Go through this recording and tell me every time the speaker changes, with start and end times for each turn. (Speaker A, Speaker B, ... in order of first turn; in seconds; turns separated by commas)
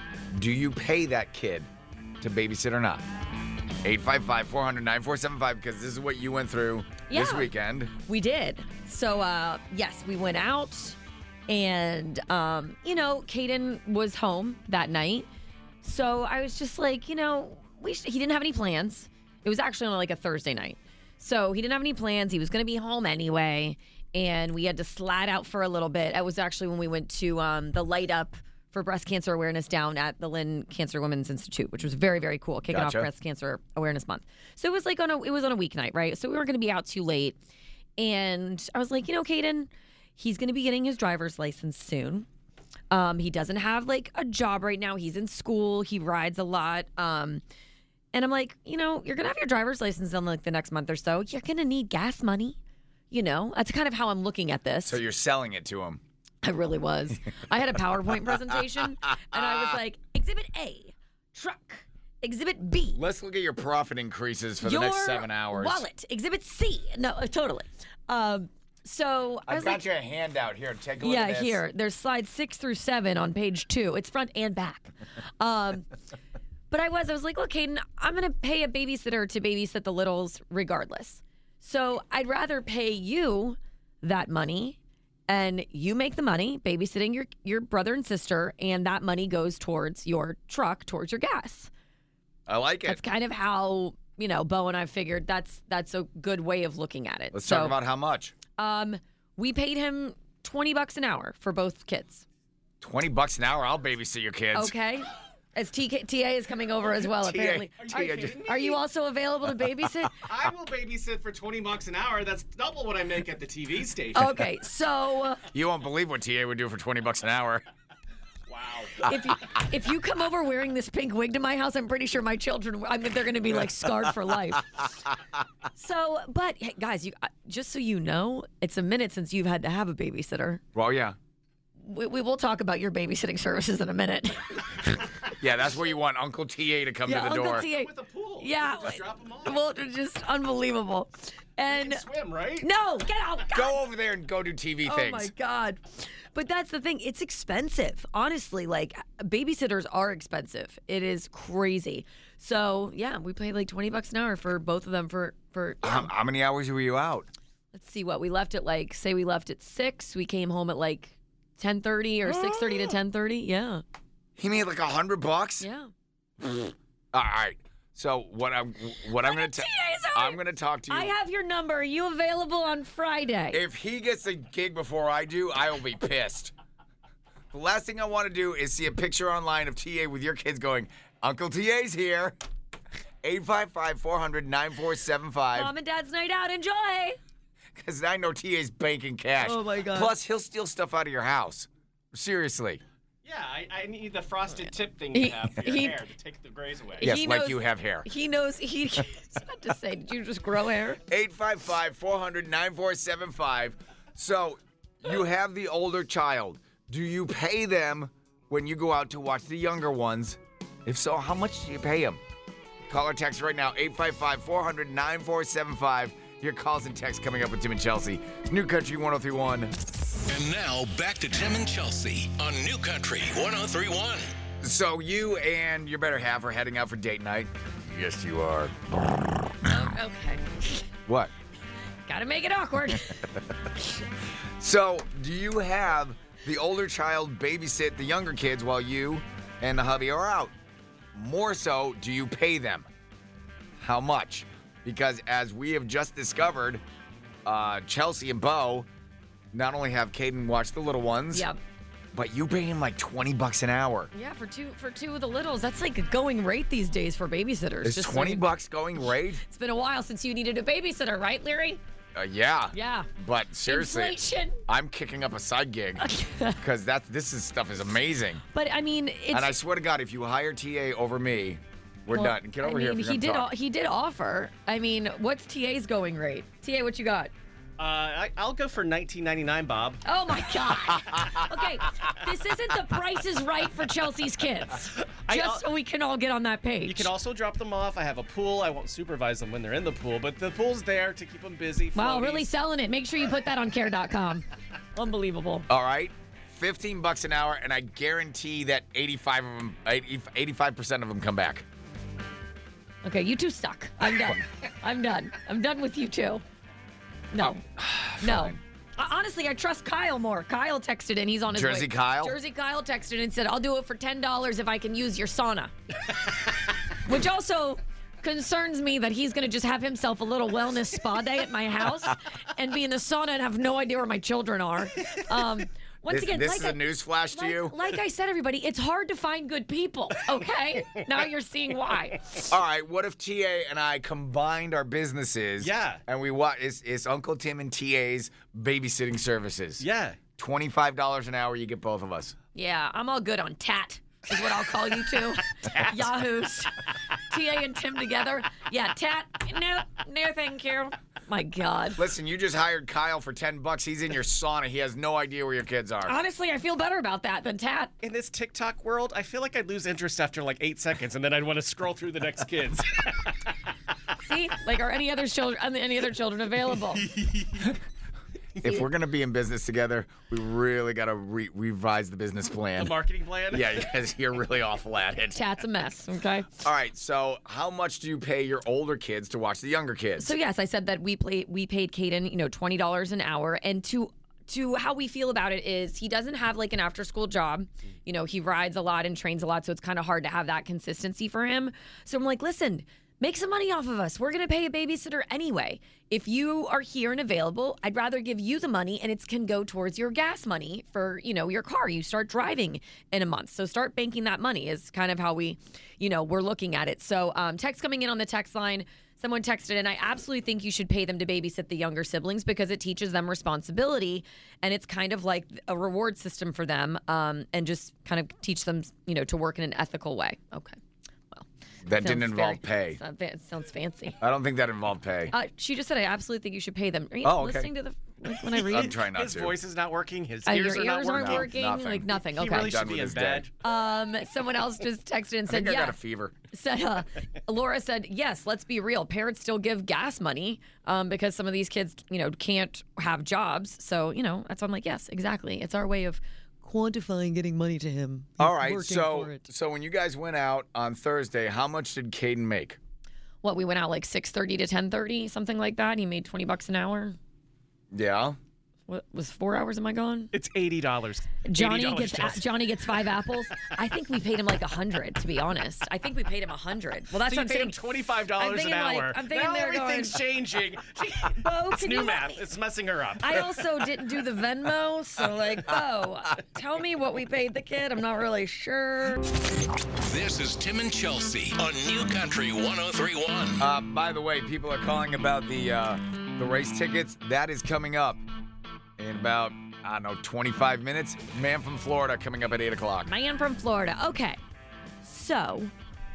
Speaker A: 0.3-1.7, Speaker A: 2.2-3.0, Speaker A: 3.8-7.9, Speaker B: 7.1-11.0, Speaker B: 11.5-15.3, Speaker B: 15.8-37.4, Speaker A: 32.7-33.1, Speaker B: 38.0-42.3, Speaker B: 42.9-47.4, Speaker B: 48.1-52.6, Speaker B: 53.1-55.0, Speaker A: 54.9-56.0, Speaker B: 56.4-63.0, Speaker A: 59.3-59.6, Speaker A: 62.9-65.8, Speaker B: 64.6-69.8, Speaker A: 69.5-71.6, Speaker B: 71.0-75.9, Speaker B: 76.7-91.7, Speaker A: 92.5-93.0, Speaker B: 92.8-97.7, Speaker A: 97.3-98.3, Speaker B: 98.6-102.2, Speaker A: 102.8-104.7, Speaker B: 104.5-107.8, Speaker A: 107.1-108.4, Speaker C: 107.8-108.8, Speaker B: 108.4-110.2, Speaker C: 110.2-114.4, Speaker B: 114.1-115.4, Speaker A: 115.5-117.6, Speaker C: 118.5-119.0, Speaker B: 119.0-124.9, Speaker B: 125.7-130.6, Speaker A: 130.7-131.2, Speaker B: 131.8-134.8, Speaker A: 135.4-137.7, Speaker B: 137.1-142.0, Speaker C: 137.7-139.6, Speaker C: 141.7-142.7, Speaker B: 142.6-143.8, Speaker A: 143.5-145.3, Speaker B: 144.8-156.1, Speaker A: 155.8-157.3, Speaker B: 157.7-163.8, Speaker A: 162.3-162.9, Speaker A: 164.4-165.7, Speaker B: 165.6-165.9, Speaker A: 166.4-171.1, Speaker B: 169.1-173.6, Speaker A: 173.5-176.5, Speaker A: 177.5-182.3, Speaker A: 183.2-185.7, Speaker B: 185.5-187.2, Speaker A: 187.8-192.8, Speaker B: 189.4-190.1, Speaker C: 193.2-197.1, Speaker B: 195.1-196.0, Speaker B: 197.0-201.0, Speaker A: 197.0-198.1, Speaker A: 201.1-212.2, Speaker A: 212.9-219.7, Speaker D: 220.3-224.3, Speaker A: 224.6-229.7, Speaker B: 229.6-230.8, Speaker A: 231.1-231.3, Speaker B: 232.1-233.3, Speaker A: 234.6-240.5, Speaker A: 241.1-242.9, Speaker A: 243.8-246.8, Speaker A: 247.4-248.9, Speaker A: 249.5-251.5, Speaker B: 251.3-251.6, Speaker A: 252.1-254.1, Speaker B: 254.1-258.4, Speaker A: 257.8-259.4, Speaker B: 259.4-261.8, Speaker A: 262.1-268.4, Speaker B: 262.7-263.1, Speaker B: 263.6-264.6, Speaker B: 266.0-266.6, Speaker B: 268.5-269.5, Speaker A: 269.3-273.5, Speaker B: 272.1-277.3, Speaker C: 277.8-280.0, Speaker B: 280.0-287.1, Speaker C: 284.9-285.7, Speaker C: 286.8-292.5, Speaker B: 291.9-295.7, Speaker A: 295.7-301.6, Speaker B: 303.0-306.4, Speaker B: 307.3-307.6, Speaker A: 307.4-308.6, Speaker B: 308.2-315.7, Speaker A: 311.5-312.4, Speaker B: 317.0-332.4, Speaker A: 326.1-327.7, Speaker A: 332.5-339.8, Speaker C: 335.6-336.0, Speaker C: 339.8-340.2, Speaker A: 340.4-342.4, Speaker B: 342.5-352.0, Speaker A: 352.0-356.1, Speaker B: 356.0-357.9, Speaker C: 358.0-363.5, Speaker B: 364.2-367.1, Speaker C: 367.1-367.7, Speaker A: 368.6-372.9, Speaker C: 372.8-373.8, Speaker A: 373.5-375.4, Speaker B: 375.3-376.5, Speaker A: 376.6-380.3, Speaker B: 380.2-420.8, Speaker B: 421.3-424.2, Speaker A: 421.8-423.0, Speaker A: 424.2-425.3, Speaker B: 425.3-428.9, Speaker A: 427.2-427.7, Speaker C: 428.5-431.5, Speaker A: 428.6-429.5, Speaker B: 430.4-432.7, Speaker A: 431.1-433.4, Speaker C: 432.2-433.5, Speaker B: 433.6-436.0, Speaker A: 435.5-436.3, Speaker B: 436.5-449.5, Speaker A: 448.4-452.8, Speaker B: 453.4-457.2, Speaker A: 457.9-458.4, Speaker B: 458.9-460.3, Speaker C: 460.3-462.5, Speaker B: 461.4-467.8, Speaker C: 467.1-473.6, Speaker B: 468.4-470.2, Speaker B: 471.4-472.4, Speaker B: 473.2-479.2, Speaker D: 480.0-483.6, Speaker A: 483.6-488.2, Speaker A: 489.0-493.1, Speaker B: 493.1-494.4, Speaker B: 495.0-495.7